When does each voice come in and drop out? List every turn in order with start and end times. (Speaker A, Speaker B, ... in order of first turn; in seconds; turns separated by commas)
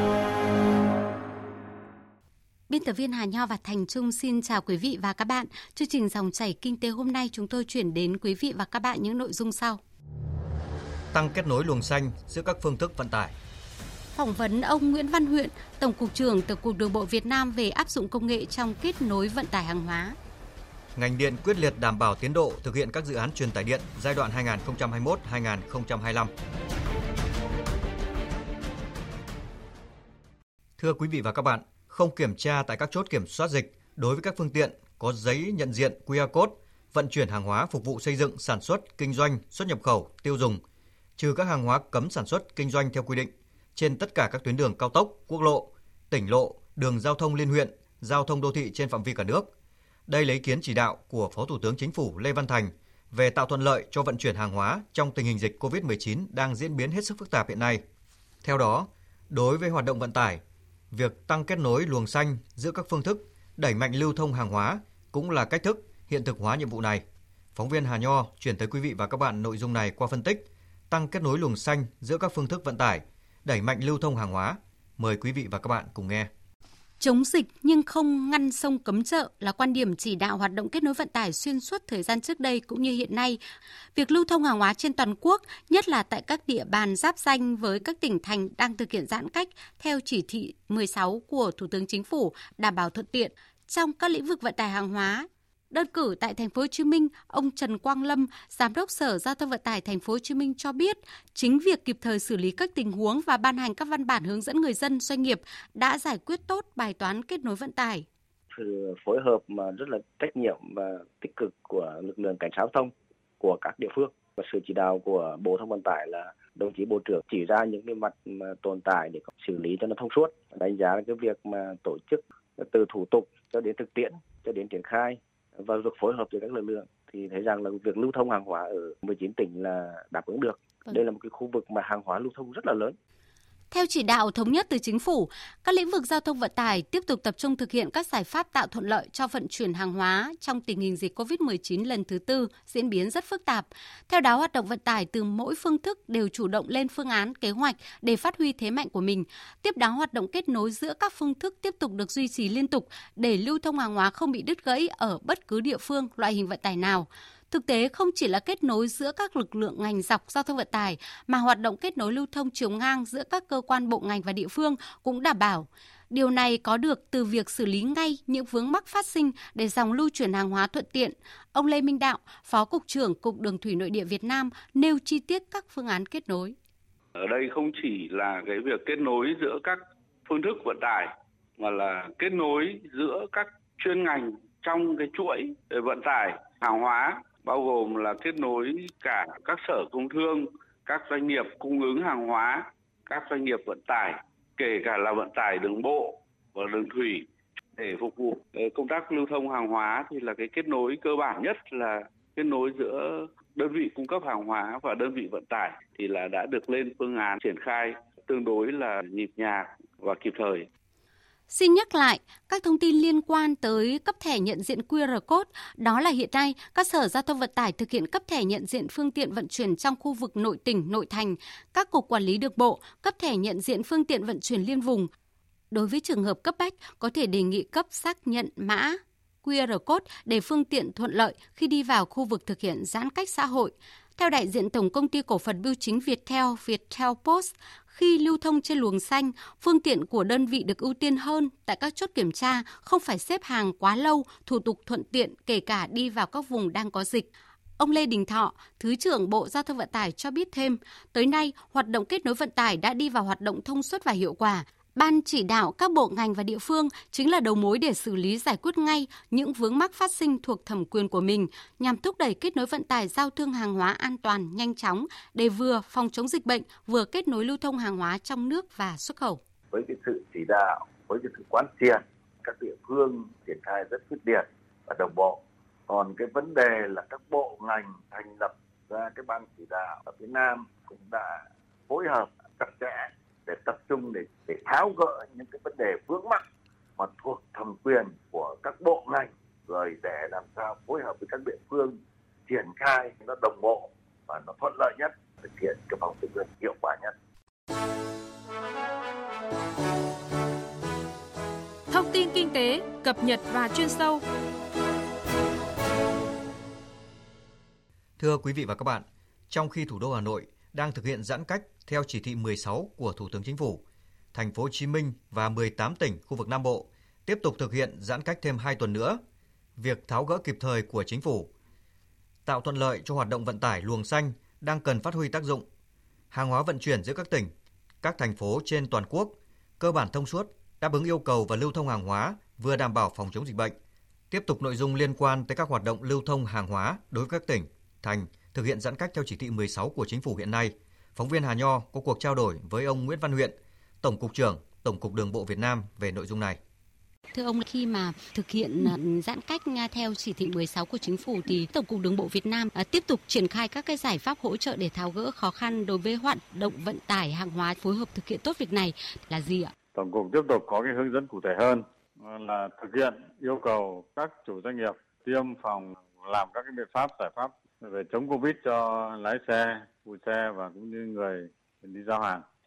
Speaker A: 2.7-9.8, Speaker B: 11.1-13.3, Speaker A: 14.1-20.2, Speaker B: 20.9-26.3, Speaker B: 30.8-40.6, Speaker B: 41.2-49.5, Speaker B: 50.1-57.8, Speaker B: 58.4-76.3, Speaker A: 77.0-83.4, Speaker A: 83.9-108.1, Speaker C: 108.5-133.0, Speaker A: 133.7-176.6, Speaker D: 177.2-210.7, Speaker A: 211.5-225.1, Speaker A: 225.7-269.4, Speaker E: 269.7-281.4, Speaker E: 281.9-286.4, Speaker E: 287.0-297.1, Speaker F: 301.9-304.2, Speaker B: 308.2-319.2, Speaker B: 319.8-321.5, Speaker B: 322.4-325.6, Speaker B: 326.3-333.8, Speaker B: 334.3-346.6, Speaker A: 347.3-359.7, Speaker G: 359.9-372.4